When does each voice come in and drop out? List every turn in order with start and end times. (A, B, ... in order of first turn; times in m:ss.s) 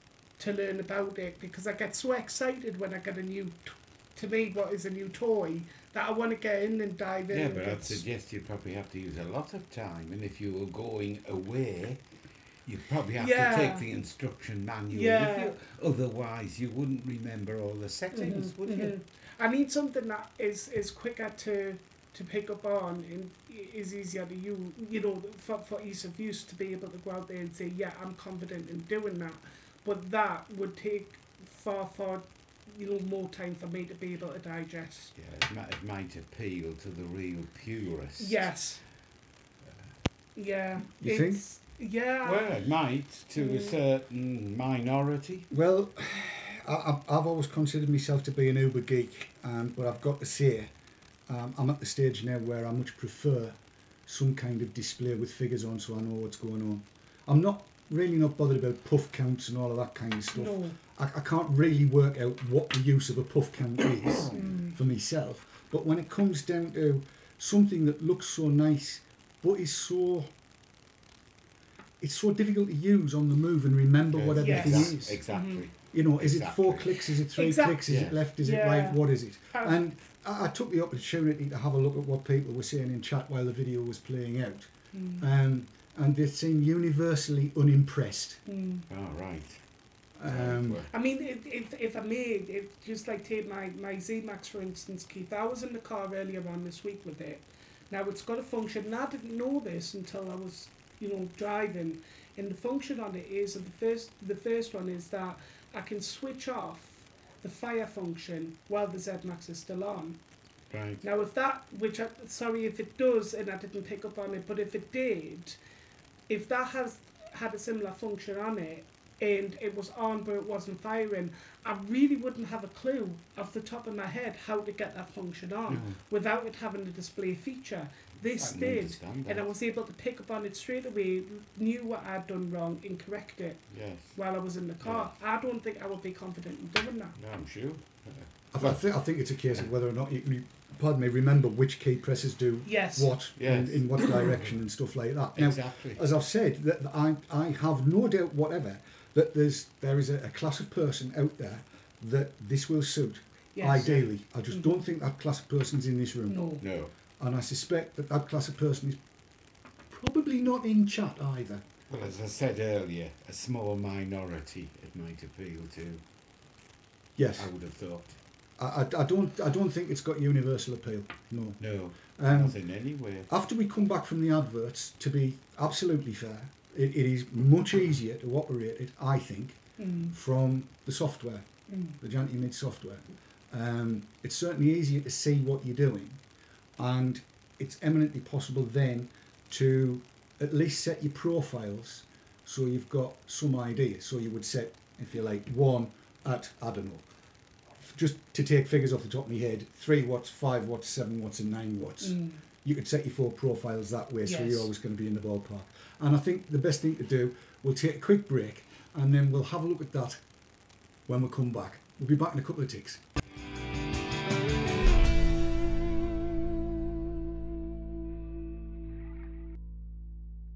0:00.4-0:08.0 A
0:07.3-0:12.0 B
0:12.7-0:19.0 B
0:13.2-0:13.8 A
0:14.9-0:15.6 A
0:18.1-0:35.1 A
0:35.2-0:38.5 B
0:38.2-0:38.8 A
0:40.4-0:42.4 A
0:41.0-0:41.4 C
0:42.2-0:45.5 B
0:43.4-0:43.7 A
0:45.5-0:50.7 C
0:51.3-1:10.3 C
1:00.3-1:00.8 A
1:04.3-1:04.8 A
1:12.0-1:15.1 C
1:14.1-1:17.0 B
1:14.4-1:15.7 A
1:15.9-1:28.4 C
1:17.4-1:17.8 A
1:17.9-1:18.2 B
1:18.4-1:19.8 A
1:24.9-1:25.3 A
1:28.5-1:28.9 A
1:28.9-1:29.6 B
1:30.2-1:30.8 C
1:30.2-1:30.9 B
1:30.9-1:50.2 A
1:50.7-1:51.0 B
1:51.0-1:55.6 A
1:56.3-2:13.6 A
2:05.7-2:06.0 B
2:08.4-2:09.5 B
2:13.7-2:14.2 B
2:14.2-2:17.2 A
2:14.8-2:15.1 B
2:17.2-2:18.8 B
2:18.5-2:36.5 C
2:22.7-2:23.1 A
2:23.4-2:24.6 B
2:25.4-2:26.0 B
2:33.6-2:34.8 A
2:36.3-2:36.6 A
2:36.6-2:36.9 B
2:37.2-2:39.0 C
2:39.9-2:41.6 C
2:41.9-2:46.0 B
2:47.2-2:47.5 C
2:47.4-2:48.2 B
2:48.6-2:51.6 C
2:51.6-2:53.3 B
2:52.2-2:52.6 C
2:53.3-3:01.5 C
2:59.8-3:00.1 A
3:01.7-3:02.0 A
3:02.0-3:06.2 C
3:06.8-3:17.1 C
3:17.8-3:30.2 C
3:22.0-3:22.4 A
3:24.2-3:24.7 A
3:31.1-3:33.0 C